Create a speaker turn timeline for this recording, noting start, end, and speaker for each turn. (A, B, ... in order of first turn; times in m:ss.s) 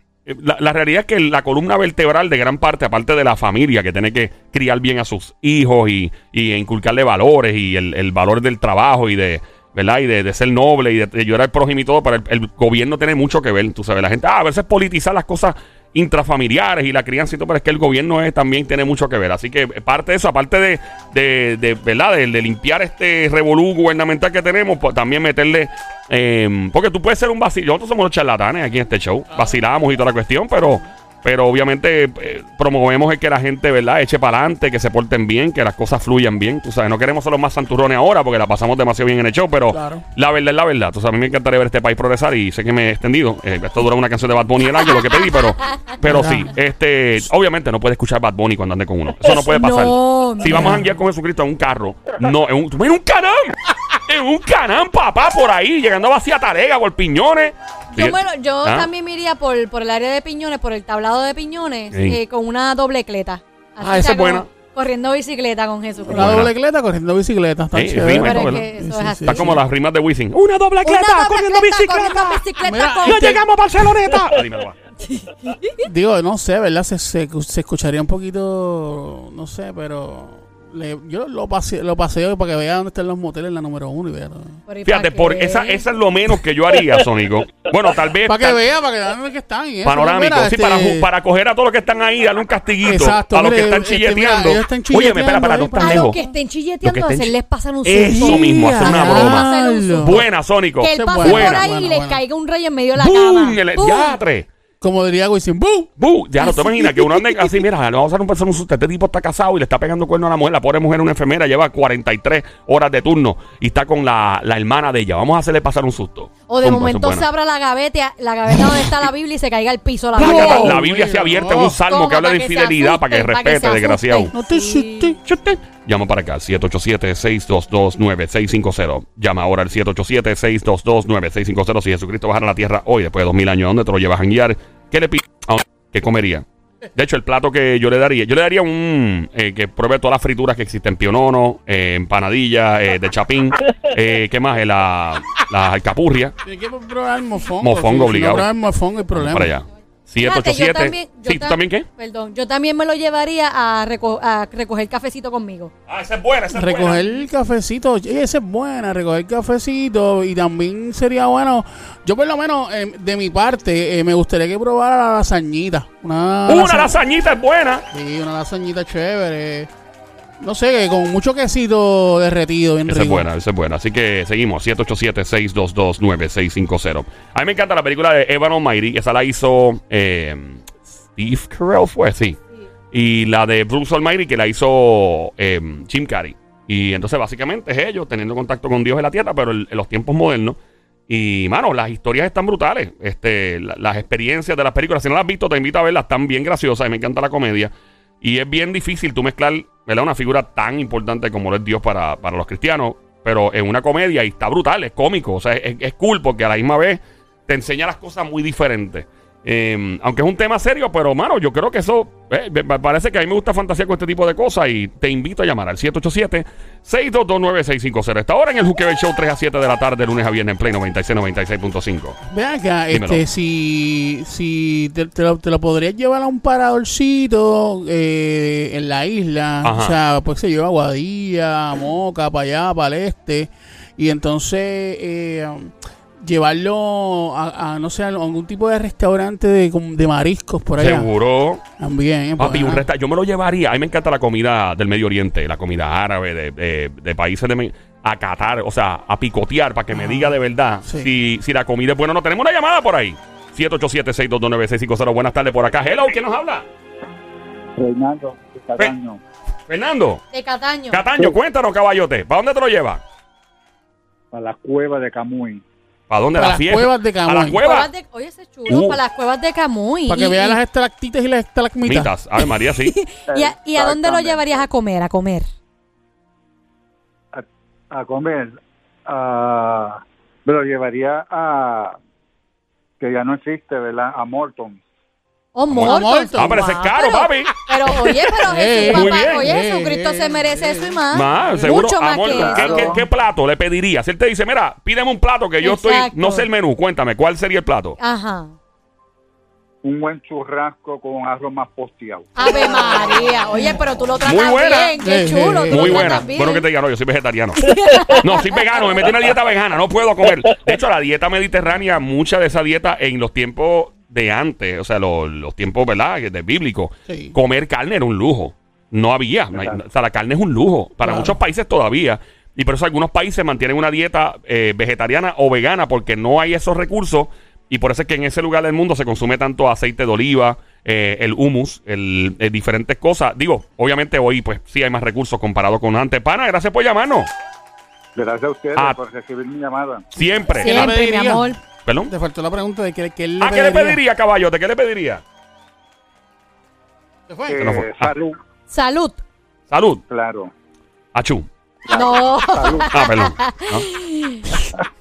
0:00.3-0:58.9 A
0:39.7-0:40.0 B
0:46.0-0:46.5 B
0:49.3-0:50.8 C
0:50.5-0:50.8 B
0:57.9-1:06.4 C
1:01.9-1:02.2 A
1:03.8-1:04.5 A
1:06.0-1:09.5 B
1:06.1-1:06.5 A
1:07.7-1:08.6 A
1:08.1-1:09.6 C
1:09.3-1:14.8 A
1:10.8-1:13.4 C
1:12.6-1:13.4 B
1:15.0-1:15.8 C
1:15.8-1:24.6 B
1:24.7-1:25.8 C
1:24.9-1:28.6 A
1:28.2-1:31.1 B
1:29.8-1:36.2 A
1:32.8-1:36.3 B
1:35.8-1:40.3 C
1:36.8-1:37.3 A
1:37.8-1:39.5 A
1:38.0-1:40.2 B
1:40.0-1:41.6 A
1:40.8-1:44.2 C
1:41.0-1:42.2 B
1:43.0-1:44.5 A
1:44.8-1:45.9 B
1:46.0-1:57.3 A
1:46.4-1:47.5 B
1:56.5-2:00.8 C
2:00.2-2:01.8 B
2:00.2-2:04.3 A
2:01.6-2:05.2 C
2:04.3-2:05.2 B
2:05.2-2:26.3 A
2:26.4-2:29.6 B
2:27.6-2:28.5 A
2:29.1-2:31.9 A
2:30.2-2:35.7 C
2:35.9-2:37.2 A
2:36.5-2:47.0 B
2:46.5-2:47.8 A
2:47.9-2:49.7 B
2:50.4-2:53.3 B
2:52.9-3:02.4 A
3:02.9-3:10.6 A
3:11.1-3:42.2 A
3:42.3-4:01.1 B
3:42.9-3:43.2 A
3:49.6-3:50.0 A
4:00.8-4:01.6 A
4:01.8-4:02.9 B
4:02.4-4:16.7 A
4:09.9-4:11.1 B
4:17.8-4:19.2 D
4:19.7-4:20.2 A
4:20.3-4:21.0 C
4:20.9-4:23.0 A
4:24.3-4:25.6 D
4:26.1-4:27.9 A
4:26.3-4:27.7 B
4:27.6-4:30.6 C
4:28.7-4:29.0 A
4:30.1-4:32.1 B
4:31.8-4:33.0 A
4:32.8-4:35.5 C
4:33.3-4:34.7 D
4:37.3-4:42.0 D
4:43.0-4:44.8 D
4:45.6-4:52.9 C
4:45.7-4:47.5 A
4:45.8-4:46.7 B
4:48.5-4:51.8 B
4:48.8-4:49.5 A
4:51.1-4:58.0 A
4:52.3-4:53.0 D
4:55.6-4:56.5 C
4:58.0-4:58.5 C
4:59.8-5:03.0 D
5:02.4-5:06.6 C
5:04.2-5:05.0 A
5:05.0-5:06.1 B
5:05.7-5:37.3 A
5:07.6-5:09.0 C
5:17.1-5:17.4 B
5:21.0-5:21.4 B
5:38.2-5:40.1 D
5:38.8-5:39.0 A
5:40.1-5:40.9 A
5:40.5-5:41.6 C
5:40.6-5:41.6 B
5:41.8-5:42.1 A
5:42.1-5:44.0 B
5:43.4-5:45.2 A
5:47.3-5:47.6 B
5:47.5-5:48.4 D
5:47.6-5:48.1 A
5:48.7-5:49.2 C
5:49.7-5:50.0 A
5:50.1-5:50.5 D
5:51.2-5:51.5 A
5:51.9-5:52.9 D
5:51.9-5:54.5 C
5:52.9-5:53.9 A